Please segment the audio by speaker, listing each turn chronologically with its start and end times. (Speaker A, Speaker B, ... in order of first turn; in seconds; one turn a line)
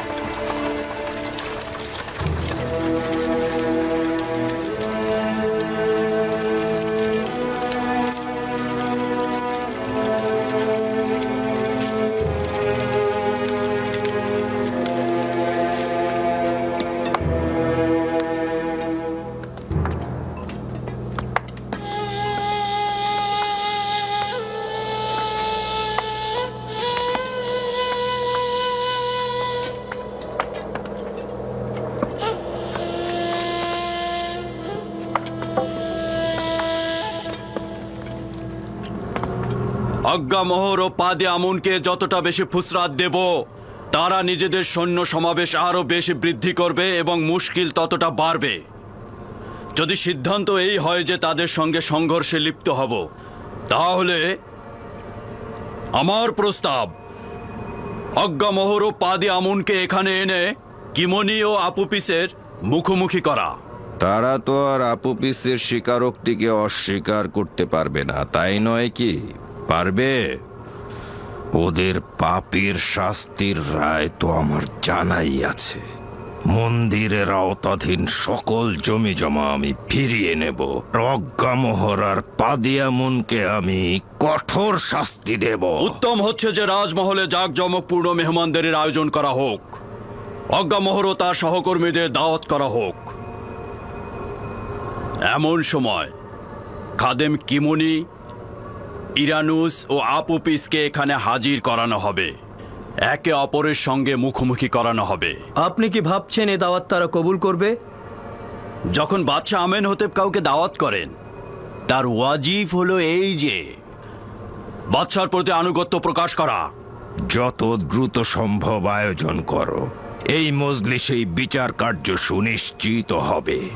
Speaker A: 40.1-43.3
Speaker A: 43.9-48.6
Speaker A: 49.8-53.0
Speaker A: 53.7-54.3
Speaker A: 56.0-56.9
Speaker A: 58.2-63.5
Speaker B: 64.0-70.2
Speaker B: 71.5-75.8
Speaker B: 76.5-86.0
Speaker A: 85.8-89.8
Speaker A: 90.5-93.1
Speaker A: 95.3-96.1
Speaker A: 97.0-98.0
Speaker A: 99.2-102.3
Speaker A: 103.1-105.4
Speaker C: 105.6-107.7
Speaker A: 108.9-111.1
Speaker A: 111.9-113.7
Speaker A: 114.9-116.7
Speaker B: 117.3-119.8
Speaker B: 120.3-123.6